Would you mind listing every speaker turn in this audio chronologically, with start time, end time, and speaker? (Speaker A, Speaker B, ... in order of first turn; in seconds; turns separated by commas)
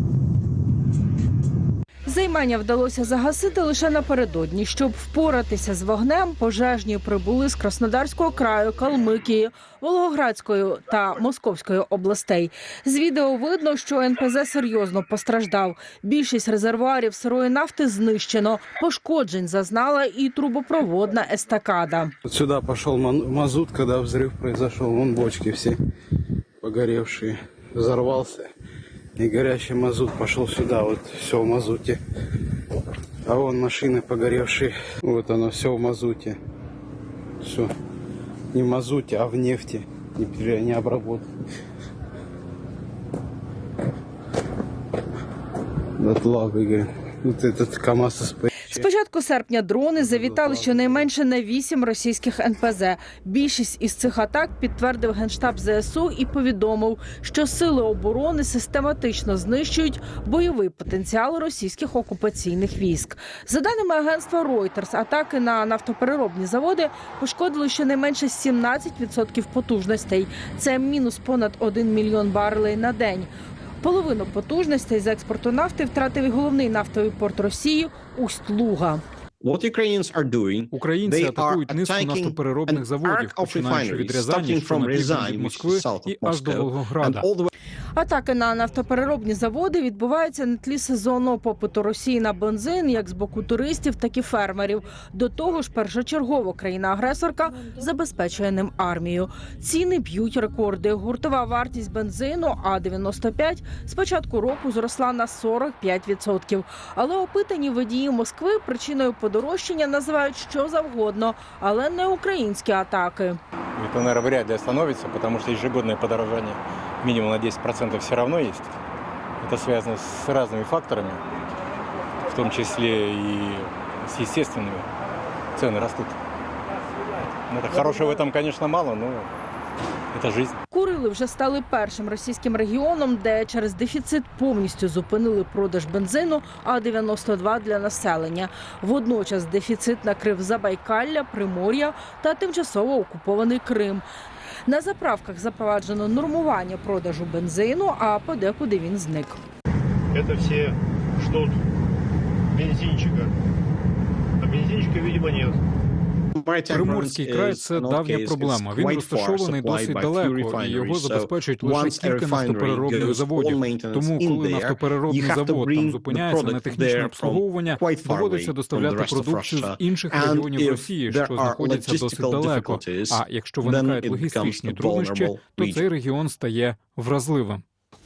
Speaker A: 2.1-22.1, Speaker B: 22.3-25.8, Speaker B: 26.6-28.5, Speaker B: 29.2-32.4, Speaker B: 33.2-36.4, Speaker B: 37.4-37.7, Speaker B: 38.5-41.2, Speaker B: 46.0-48.9, Speaker A: 48.7-73.3, Speaker B: 50.0-51.1, Speaker A: 73.8-79.0, Speaker C: 79.4-87.5, Speaker D: 80.7-87.2, Speaker A: 88.0-113.4, Speaker E: 113.8-118.7, Speaker E: 119.4-121.2, Speaker E: 122.2-124.9, Speaker E: 125.5-126.2, Speaker E: 127.5-129.3, Speaker E: 130.1-130.6, Speaker A: 130.7-144.0, Speaker A: 144.7-149.4, Speaker F: 150.2-151.5, Speaker F: 152.6-153.3, Speaker F: 154.9-155.5, Speaker C: 156.3-175.9, Speaker D: 156.7-177.6